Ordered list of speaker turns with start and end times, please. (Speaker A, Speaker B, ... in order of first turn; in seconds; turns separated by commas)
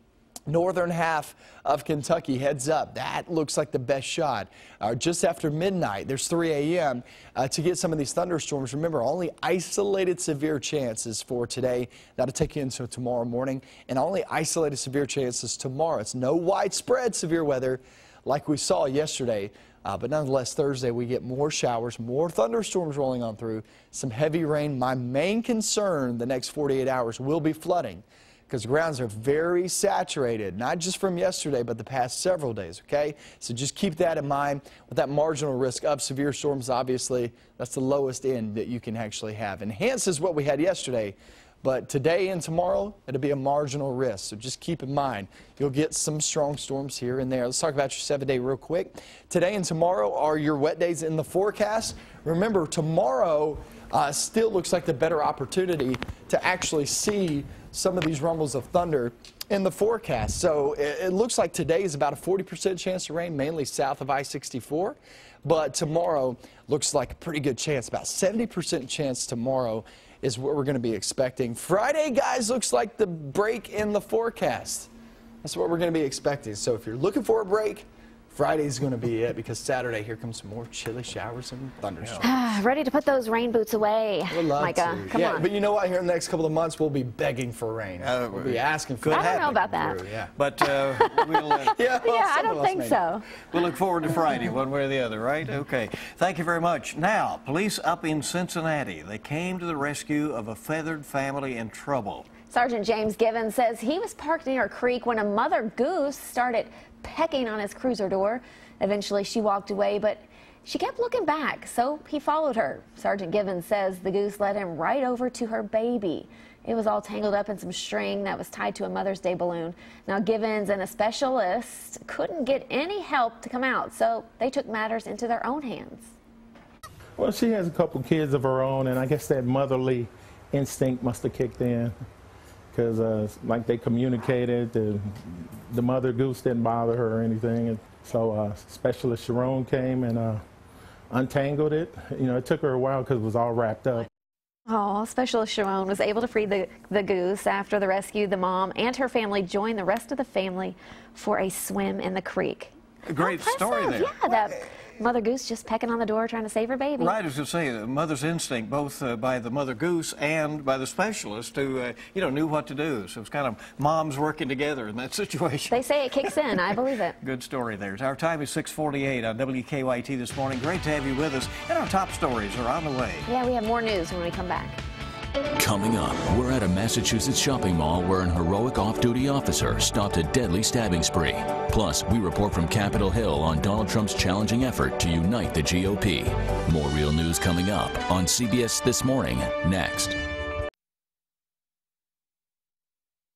Speaker A: 0.5-74.9, Speaker A: 75.4-82.3, Speaker B: 82.2-85.5, Speaker A: 84.3-90.3, Speaker C: 88.0-89.7, Speaker B: 89.1-90.0, Speaker C: 90.3-91.8, Speaker B: 90.8-93.2, Speaker A: 91.7-93.0, Speaker C: 93.5-102.3, Speaker B: 102.5-126.1, Speaker D: 127.2-131.9, Speaker D: 132.7-135.1, Speaker D: 135.7-140.4, Speaker D: 141.1-144.1, Speaker B: 144.7-157.2, Speaker C: 153.0-154.3, Speaker C: 157.0-165.8, Speaker B: 165.7-167.2, Speaker C: 167.2-173.2, Speaker B: 173.2-174.8, Speaker E: 175.6-190.2